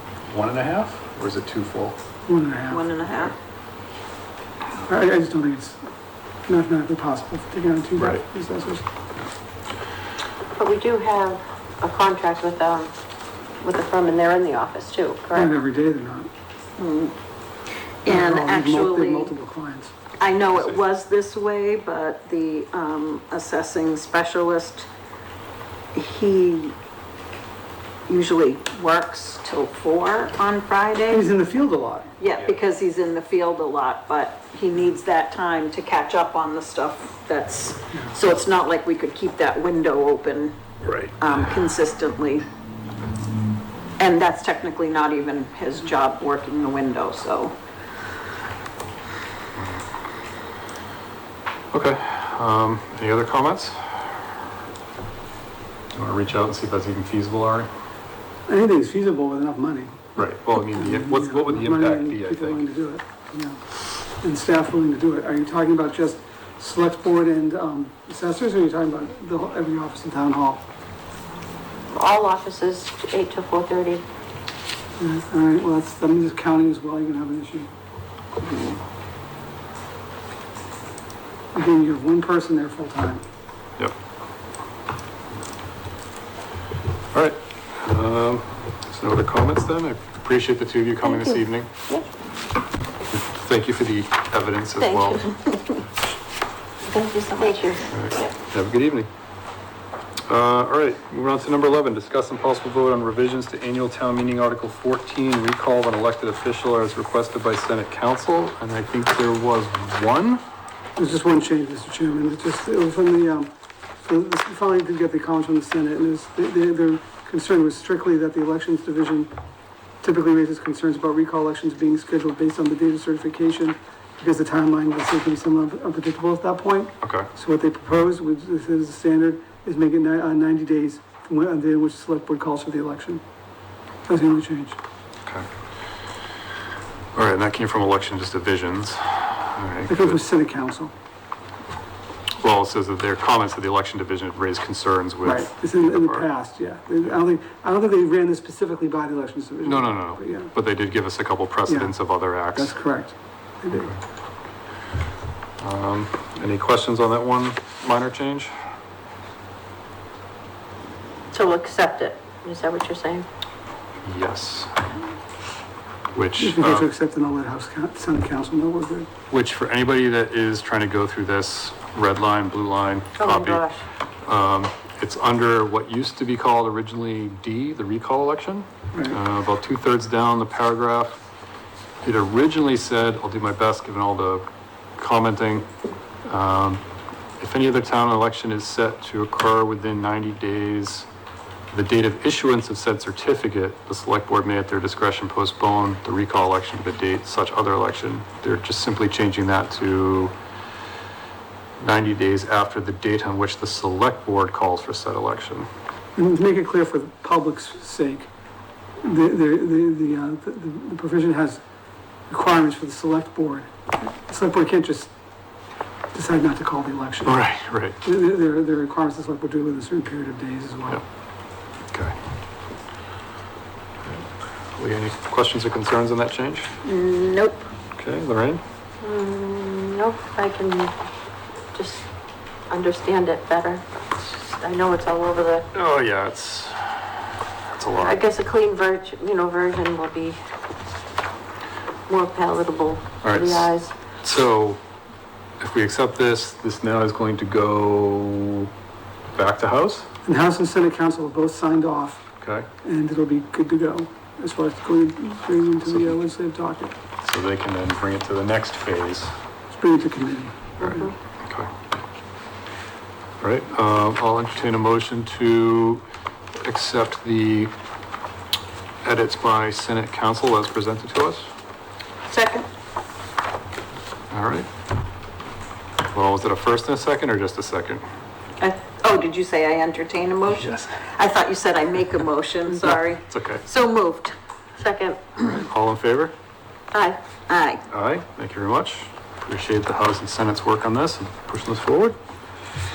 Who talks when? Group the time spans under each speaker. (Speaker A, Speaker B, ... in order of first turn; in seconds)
Speaker A: 0.3-2.0, 8.0-8.2, 20.5-20.8, 40.8-41.4, 49.6-49.8, 51.7-54.2, 55.9-57.7, 60.1-62.6, 87.1-91.7, 93.1-95.3, 97.9-99.1, 100.3-110.4, 127.0-127.3, 137.1-140.2, 142.4-146.2, 149.6-152.7, 155.6-158.5, 164.0-164.8, 166.1-166.9, 169.3-173.6, 174.2-181.2, 182.0-185.7, 186.2-186.8, 187.4-191.1, 191.7-200.3, 201.8-205.7, 217.2-218.0, 221.9-222.2, 224.8-226.7, 227.9-228.6, 235.7-237.1, 237.7-238.2, 243.2-244.8, 245.6-248.7, 249.3-250.1, 252.4-252.7, 255.9-256.1, 257.2-259.3, 260.8-261.7, 263.4-267.7, 269.0-271.5, 274.3-274.7, 276.1-278.0, 280.6-280.9, 282.8-283.6, 285.4-286.3, 287.9-292.1
Speaker B: 2.3-2.8, 4.9-5.8, 6.5-8.8, 15.3-16.3, 18.1-19.9, 31.1-32.1, 58.5-60.2, 60.7-63.6, 64.2-70.6, 75.0-77.7, 81.5-83.2, 111.0-119.3, 120.0-133.2, 134.1-134.8, 139.9-140.9, 145.2-150.5, 151.7-151.9, 152.5-153.9, 166.4-169.1, 178.9-179.2, 206.2-208.3, 209.0-211.6, 212.3-215.1, 216.1-217.4, 218.0-221.0, 250.2-252.2, 252.8-256.9, 259.7-261.0
Speaker C: 2.7-3.3, 16.8-17.1, 18.0-19.3, 20.2-24.9, 25.9-26.7, 28.1-31.3, 32.2-40.5, 41.2-42.5, 44.0-47.5, 226.8-227.7, 272.3-272.7, 278.6-284.3, 287.5-287.8
Speaker D: 10.6-12.9, 13.6-15.5, 71.9-74.0, 91.1-91.4, 94.8-95.2, 96.9-98.3, 161.3-163.3, 173.2-173.8, 229.0-230.9, 231.7-232.0, 232.7-235.7, 238.0-240.4, 242.1-243.9, 260.8-261.1, 284.8-285.2, 286.9-287.2